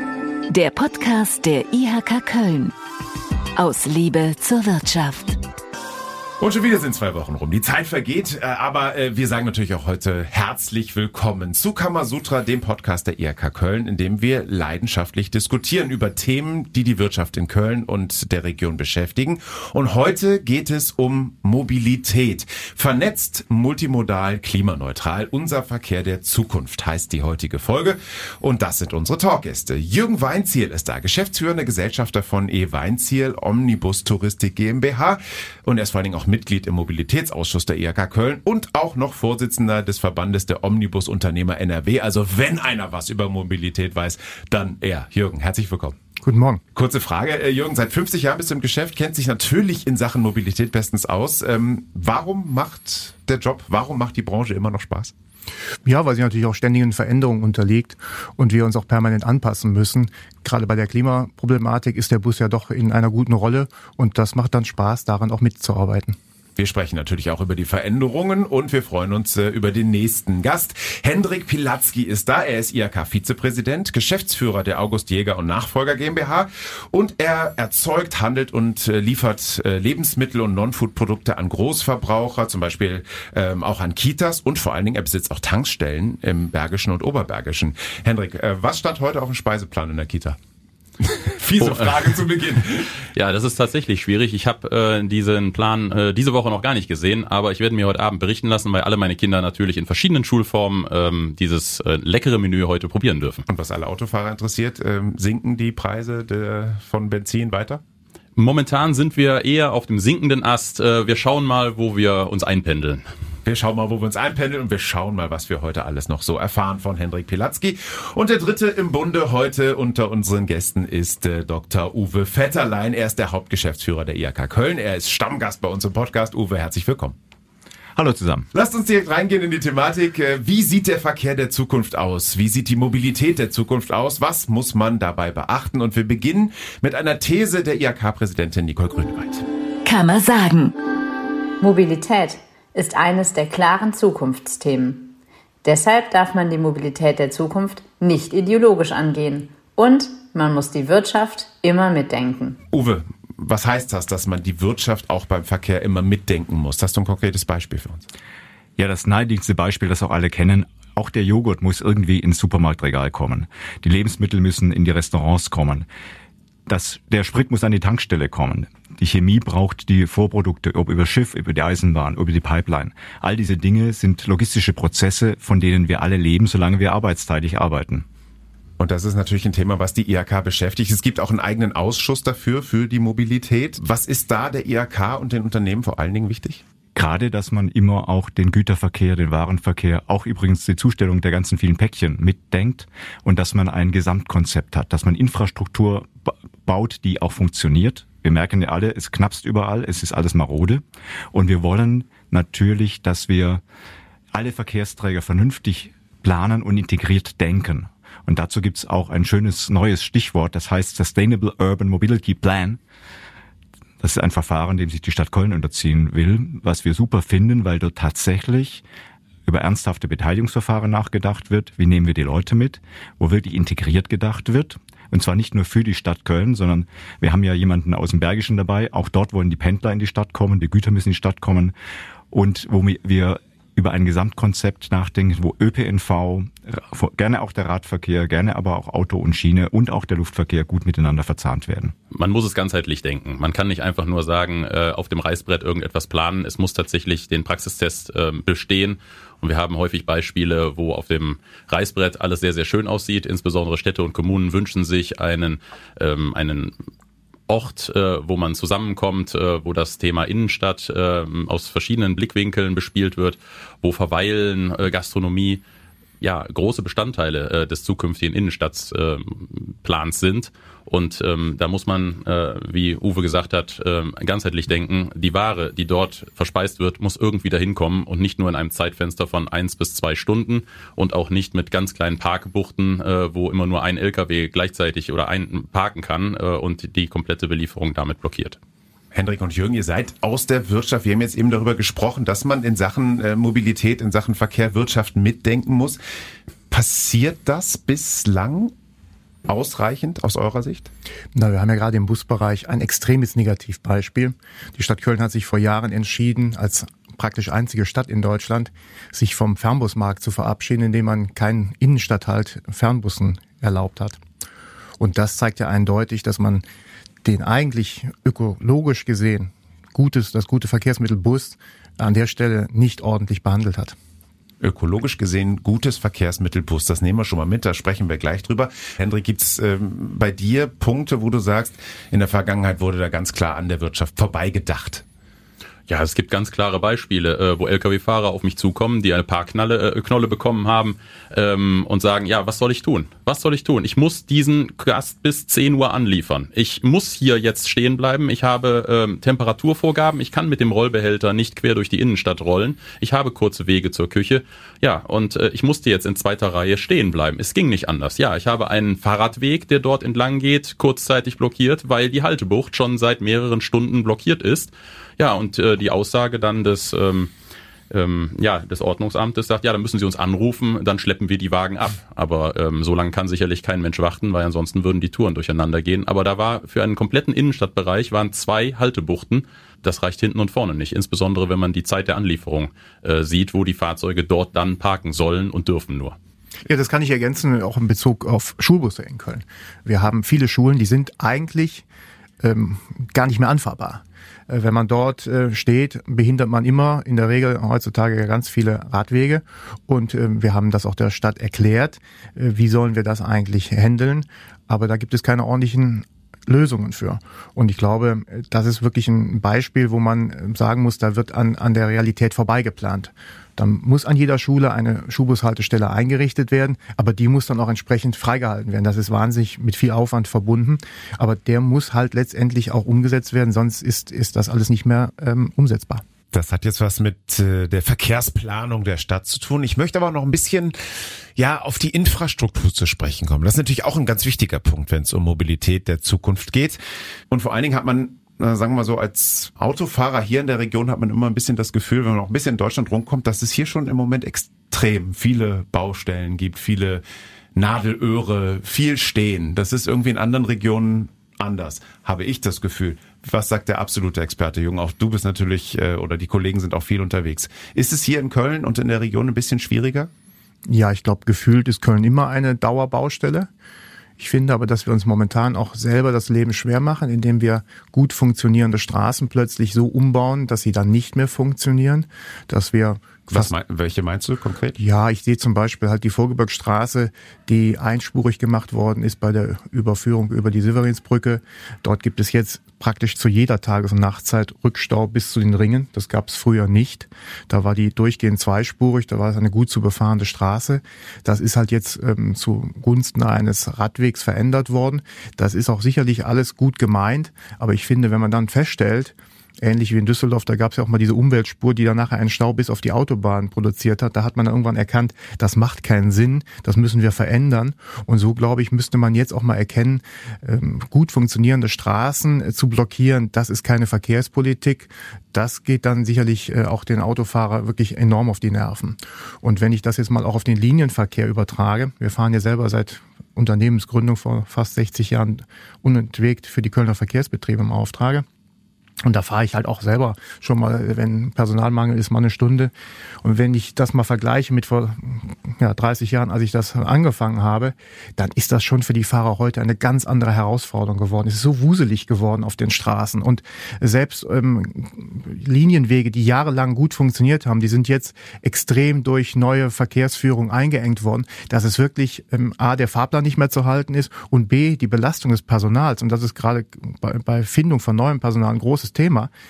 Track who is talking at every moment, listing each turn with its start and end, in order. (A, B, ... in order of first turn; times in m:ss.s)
0:00.5-0:02.7 A
0:03.6-0:05.4 A
0:06.4-0:46.0 B
0:46.2-0:46.6 C
0:46.8-0:55.1 B
0:55.8-1:06.2 C
1:06.6-1:30.4 B
1:31.0-1:32.9 B
1:31.6-1:32.2 D
1:32.9-1:43.4 D
1:43.5-1:47.8 B
1:48.4-1:53.0 D
1:53.4-2:07.2 B
2:08.0-2:08.5 E
2:08.5-2:19.4 B
2:19.8-2:20.8 A
2:21.6-2:32.6 F
2:32.7-2:38.1 B
2:38.8-2:45.9 E
2:46.7-2:58.1 E
2:58.8-3:06.6 B
3:07.0-3:23.6 E
3:24.3-3:32.8 E
3:34.0-3:38.8 E
3:39.5-3:51.7 E
3:52.3-4:02.0 E
4:02.1-4:16.7 D
4:17.5-4:25.6 D
4:26.2-4:48.6 D
4:49.1-4:56.0 B
4:56.7-4:58.7 B
4:59.4-5:00.9 B
5:01.3-5:14.2 C
5:15.0-5:16.6 C
5:17.2-5:24.0 C
5:24.6-5:35.0 B
5:35.9-6:07.3 D
6:07.9-6:26.2 D
6:26.7-6:31.8 C
6:32.4-7:06.0 C
7:06.3-7:10.8 B
7:11.4-7:16.8 B
7:17.3-7:27.0 B
7:27.5-7:40.1 B
7:40.7-7:43.5 C
7:44.2-7:53.5 C
7:53.3-7:54.8 B
7:54.8-8:48.2 C
8:49.0-8:52.7 C
8:53.2-9:19.3 C